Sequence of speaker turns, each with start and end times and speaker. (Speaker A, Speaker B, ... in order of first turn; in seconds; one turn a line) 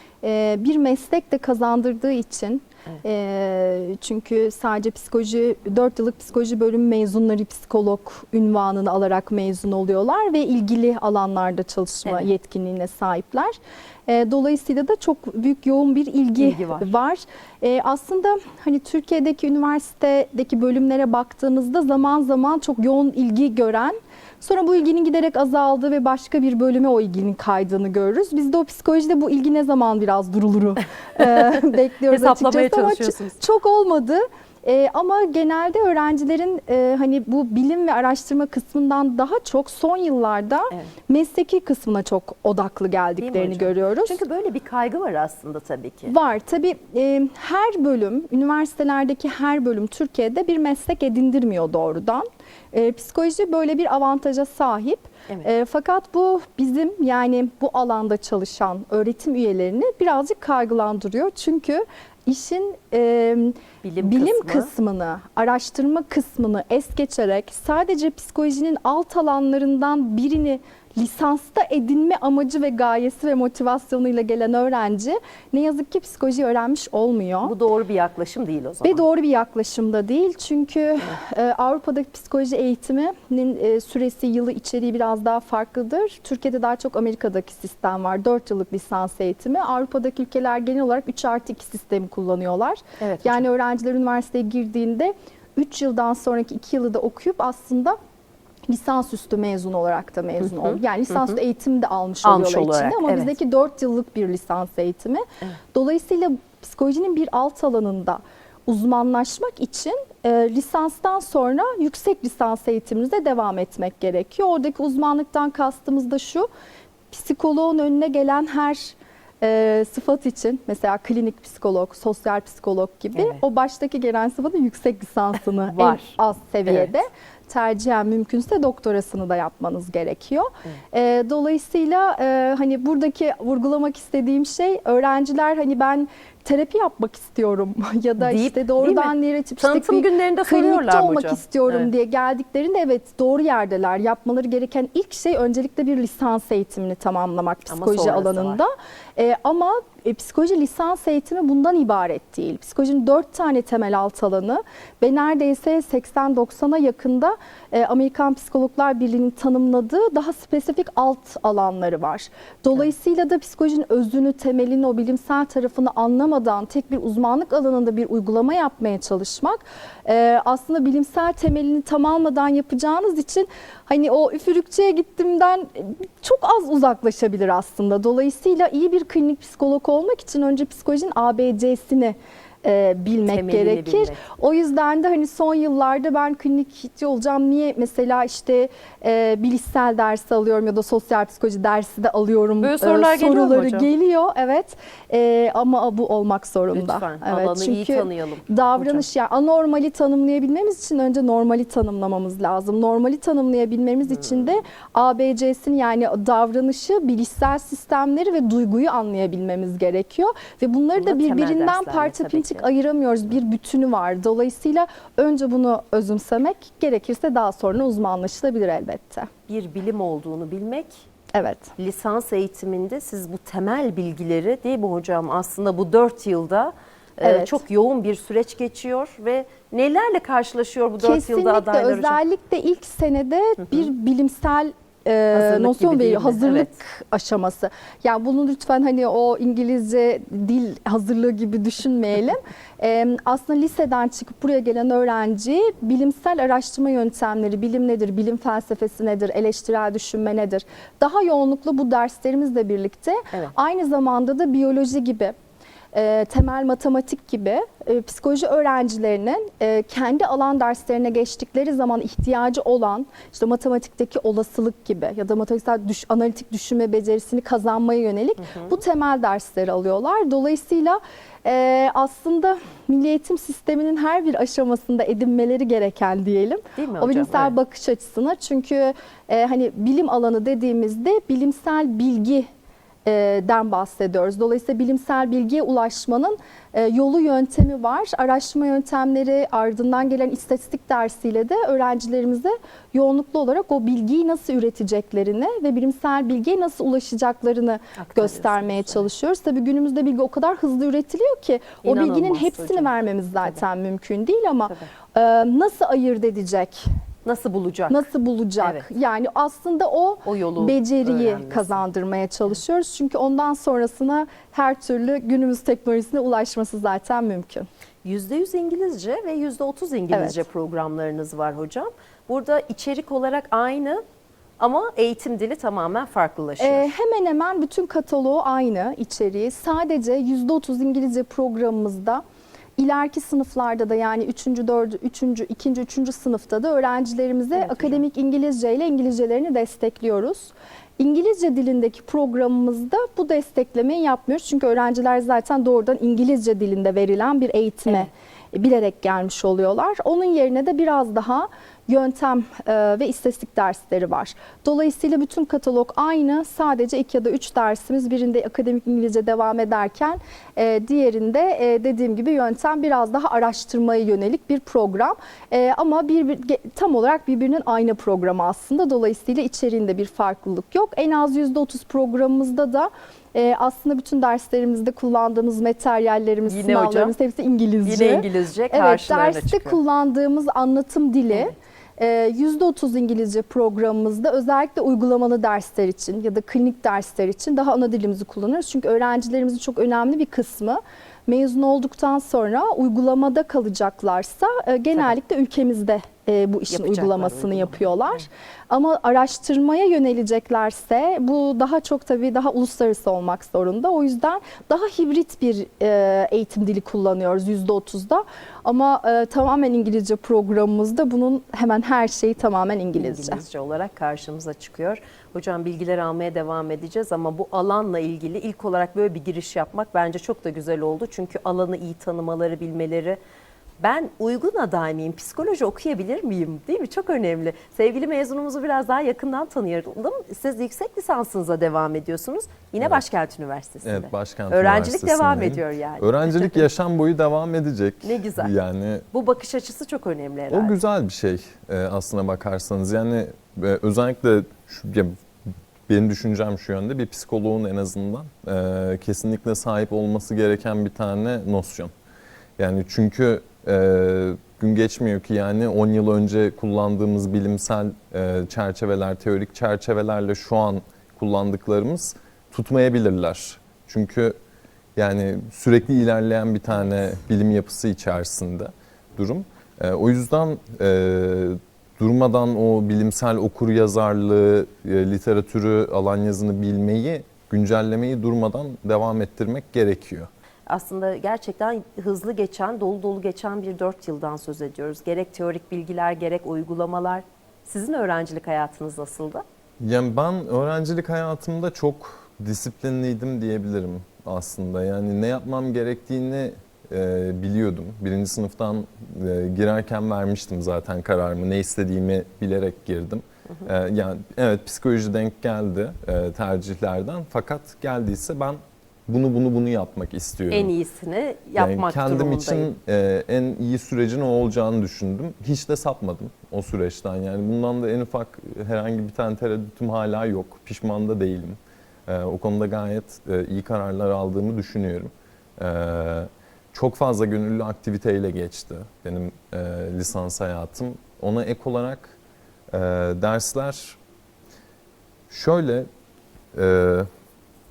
Speaker A: 0.2-44.2
Speaker B: 16.4-16.9
Speaker B: 31.2-33.4
Speaker B: 43.2-46.1
Speaker A: 46.1-77.5
Speaker B: 63.8-64.7
Speaker B: 77.4-79.0
Speaker A: 78.8-98.0
Speaker B: 93.0-93.4
Speaker A: 98.7-116.5
Speaker B: 100.4-101.4
Speaker B: 102.2-103.3
Speaker A: 117.1-219.3
Speaker B: 123.2-123.4
Speaker B: 125.7-127.0
Speaker B: 138.2-141.9
Speaker B: 147.7-148.6
Speaker B: 183.2-184.2
Speaker B: 192.6-193.9
Speaker B: 196.7-199.1
Speaker B: 204.0-204.6
Speaker B: 210.9-212.6
Speaker B: 219.5-221.1
Speaker A: 221.3-221.7
Speaker B: 221.8-232.2
Speaker A: 227.2-227.6
Speaker A: 231.0-255.3
Speaker B: 235.3-236.8
Speaker A: 255.9-282.5
Speaker B: 268.4-268.7
Speaker B: 276.8-277.5
Speaker A: 283.0-306.8
Speaker B: 298.0-299.1
Speaker B: 301.8-303.6
Speaker B: 307.2-308.1
Speaker A: 307.9-317.7
Speaker B: 308.6-308.9
Speaker B: 310.2-311.8
Speaker B: 318.0-324.0
Speaker A: 320.1-320.4
Speaker B: 324.6-326.9
Speaker A: 326.6-332.2
Speaker A: 332.8-413.4
Speaker B: 337.5-338.0
Speaker B: 376.5-377.1
Speaker B: 377.8-379.8
Speaker B: 396.7-397.9
Speaker B: 413.0-423.2
Speaker B: 423.8-436.6
Speaker C: 433.8-439.1
Speaker B: 438.0-438.5
Speaker B: 439.1-440.8
Speaker C: 440.5-445.2
Speaker C: 445.9-451.9
Speaker C: 452.6-464.4
Speaker C: 464.9-480.3
Speaker B: 480.7-489.4
Speaker C: 489.8-510.7
Speaker B: 510.5-512.7
Speaker C: 511.6-532.1
Speaker C: 532.7-534.0
Speaker C: 535.3-535.9
Speaker C: 536.5-537.1